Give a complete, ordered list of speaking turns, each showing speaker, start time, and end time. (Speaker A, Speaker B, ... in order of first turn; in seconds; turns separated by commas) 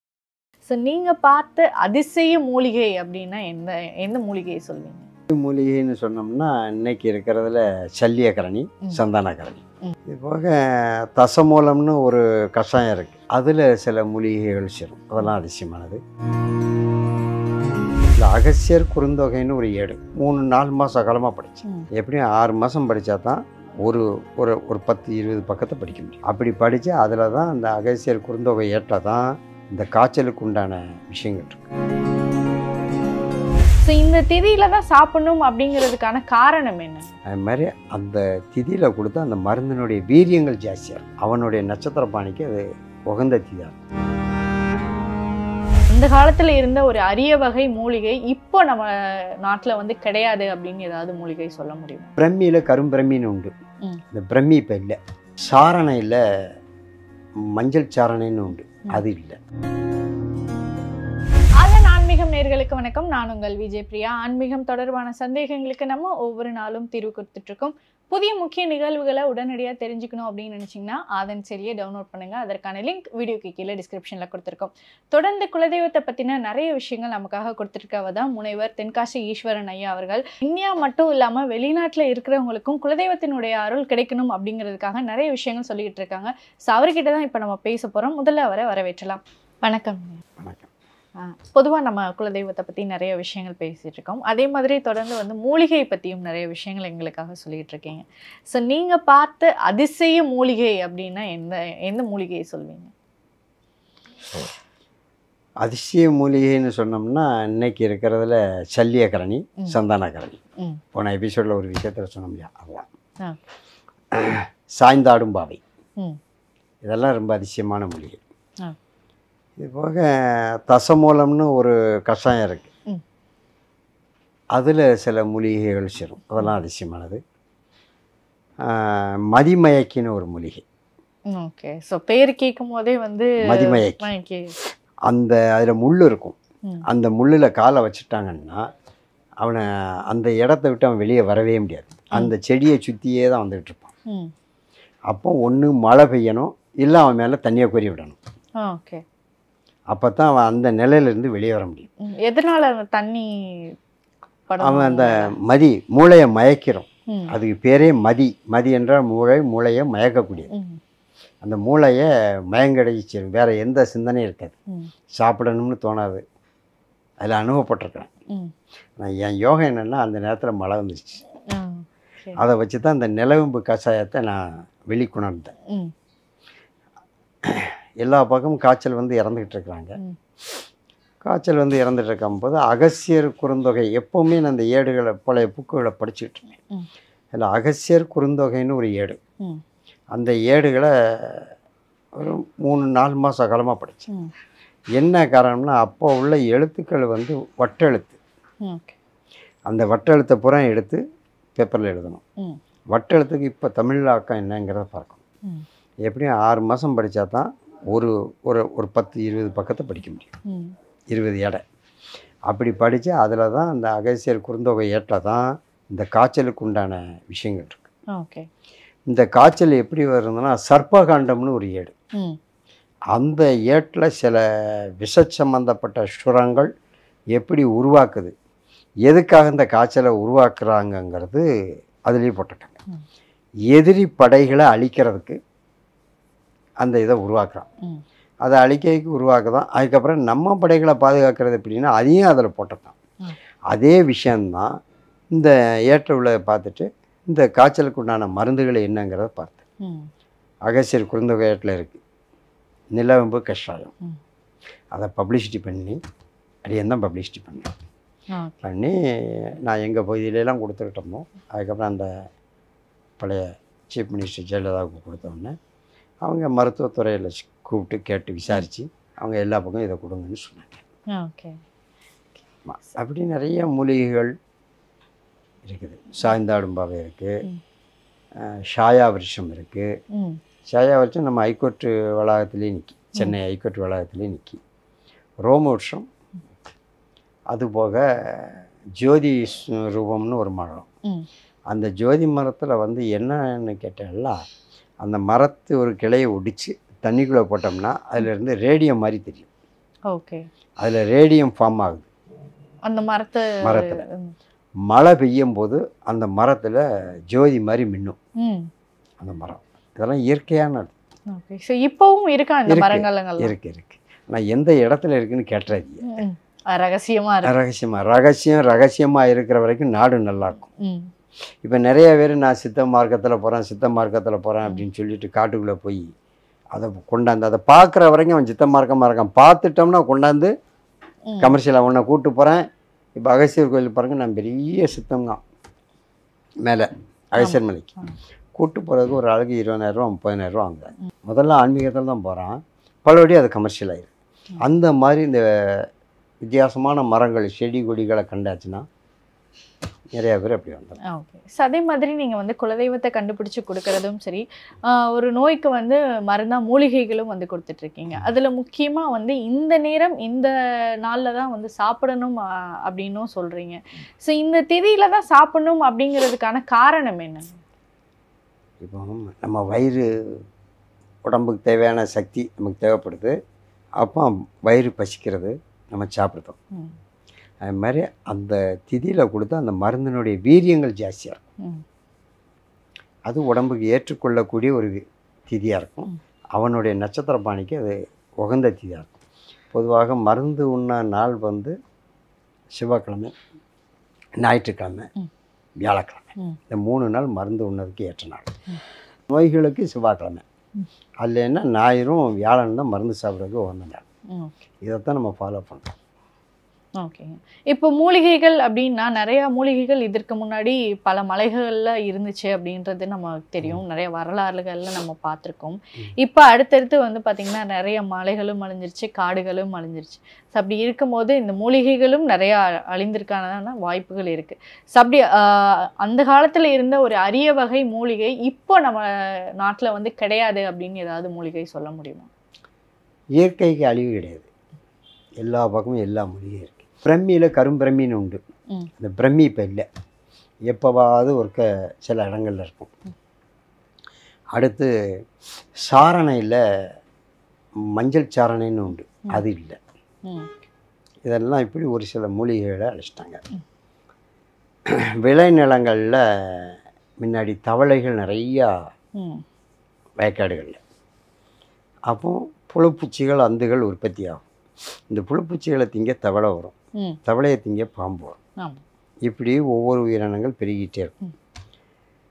Speaker A: 0.7-5.1, Speaker B: 5.3-16.0, Speaker B: 18.1-31.7, Speaker A: 33.8-37.1, Speaker B: 37.3-43.8, Speaker A: 45.9-52.1, Speaker B: 52.2-53.5, Speaker B: 54.1-56.2, Speaker B: 57.5-59.4, Speaker A: 61.6-90.2, Speaker B: 90.4-90.7, Speaker A: 91.2-102.9, Speaker B: 105.6-110.4, Speaker B: 110.9-112.9, Speaker B: 114.1-115.6, Speaker B: 116.8-118.2, Speaker B: 119.6-122.7, Speaker B: 124.5-127.2, Speaker B: 128.6-130.6, Speaker A: 131.3-134.5, Speaker B: 133.4-134.0, Speaker B: 135.1-136.4, Speaker B: 136.9-138.7, Speaker B: 139.4-143.9, Speaker B: 145.1-148.2, Speaker A: 148.6-149.0, Speaker B: 149.9-151.9, Speaker A: 152.0-153.7, Speaker A: 154.5-155.3, Speaker B: 154.6-160.5, Speaker A: 157.1-157.3, Speaker A: 160.5-160.8, Speaker B: 161.4-164.6, Speaker B: 165.1-166.2, Speaker B: 167.2-168.1, Speaker B: 169.0-171.2, Speaker A: 171.5-172.4, Speaker B: 172.4-175.5, Speaker B: 177.4-180.0, Speaker B: 181.2-186.5, Speaker B: 187.3-189.2, Speaker B: 190.1-191.5, Speaker B: 192.2-194.1, Speaker B: 195.0-198.2, Speaker A: 198.6-198.9, Speaker B: 199.7-201.0, Speaker B: 201.6-202.2, Speaker B: 202.9-205.2, Speaker B: 206.1-210.3, Speaker A: 210.5-210.7, Speaker B: 211.1-211.6, Speaker B: 212.5-217.9, Speaker A: 218.1-218.5, Speaker B: 219.1-221.9, Speaker B: 223.1-226.7, Speaker B: 227.3-228.3, Speaker B: 229.1-231.4, Speaker B: 232.0-232.8, Speaker B: 233.7-235.4, Speaker B: 236.8-237.7, Speaker B: 238.4-242.9, Speaker B: 243.7-244.8, Speaker B: 245.3-249.6, Speaker A: 249.8-250.1, Speaker B: 250.7-252.0, Speaker B: 252.9-253.9, Speaker B: 254.9-256.0, Speaker B: 256.7-257.7, Speaker A: 258.3-258.6, Speaker B: 258.6-262.2, Speaker B: 263.2-265.6, Speaker B: 266.2-270.8, Speaker A: 271.1-271.6, Speaker B: 272.7-274.3, Speaker B: 275.6-277.4, Speaker B: 278.4-279.9, Speaker A: 280.1-280.4, Speaker B: 280.7-284.6, Speaker B: 285.4-286.1, Speaker B: 287.5-290.9, Speaker B: 291.7-294.4, Speaker B: 295.0-299.5, Speaker A: 300.1-300.4, Speaker B: 300.8-302.1, Speaker A: 302.9-304.3, Speaker B: 303.6-304.0, Speaker B: 304.9-308.2, Speaker A: 308.4-308.7, Speaker B: 309.2-310.9, Speaker A: 311.3-313.5, Speaker B: 312.7-316.2, Speaker A: 316.1-317.5, Speaker B: 317.4-320.7, Speaker A: 320.8-321.1, Speaker B: 321.6-326.1, Speaker B: 326.7-330.5, Speaker A: 331.3-331.6, Speaker B: 331.4-332.6, Speaker B: 333.2-335.4, Speaker B: 336.6-337.9, Speaker A: 337.4-338.1, Speaker B: 338.6-345.9, Speaker B: 346.4-348.9, Speaker B: 350.1-351.0, Speaker A: 351.1-360.5, Speaker A: 361.0-367.6, Speaker B: 368.8-370.4, Speaker B: 371.2-373.4, Speaker B: 374.0-376.6, Speaker B: 377.6-381.4, Speaker B: 383.3-389.1, Speaker B: 389.7-391.8, Speaker B: 392.7-393.3, Speaker B: 394.4-395.1, Speaker B: 395.8-398.5, Speaker B: 399.3-400.4, Speaker B: 401.2-404.0, Speaker B: 404.8-405.9, Speaker A: 407.0-432.3, Speaker B: 433.4-434.5, Speaker B: 435.4-438.4, Speaker B: 439.0-439.9, Speaker B: 440.7-442.9, Speaker B: 444.5-444.9, Speaker B: 445.8-446.6, Speaker B: 447.9-449.8, Speaker B: 451.2-453.4, Speaker B: 455.2-458.8, Speaker A: 459.2-459.4, Speaker B: 460.2-460.8, Speaker B: 462.1-464.4, Speaker B: 465.1-468.4, Speaker B: 469.2-471.1